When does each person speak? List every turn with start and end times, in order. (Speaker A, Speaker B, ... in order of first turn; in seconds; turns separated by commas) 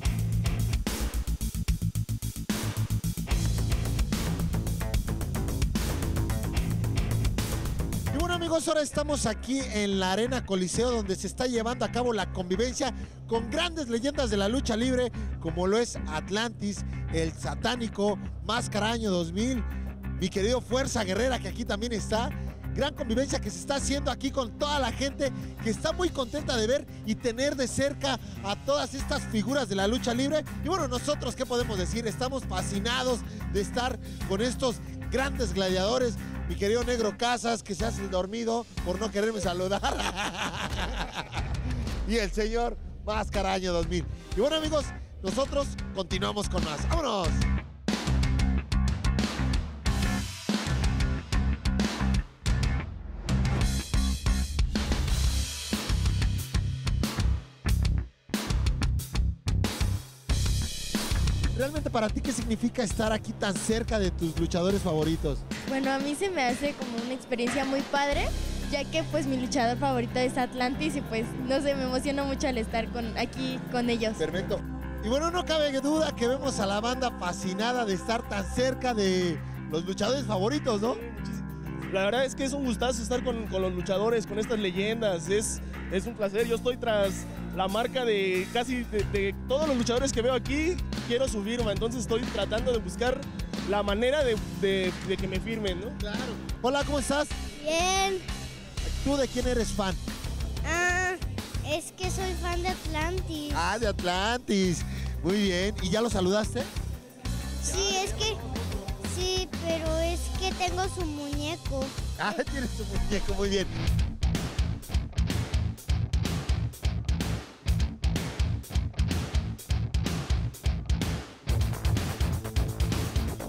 Speaker A: 8.1-19.7, Speaker A: 20.2-41.5, Speaker A: 42.0-47.5, Speaker A: 61.5-65.4, Speaker B: 65.7-74.2, Speaker A: 74.2-81.0, Speaker C: 81.0-96.0, Speaker A: 96.0-97.3, Speaker D: 97.6-98.2, Speaker A: 98.8-100.0, Speaker D: 100.6-103.6, Speaker A: 103.5-106.7, Speaker D: 107.6-108.4, Speaker D: 109.0-111.9, Speaker A: 112.2-113.7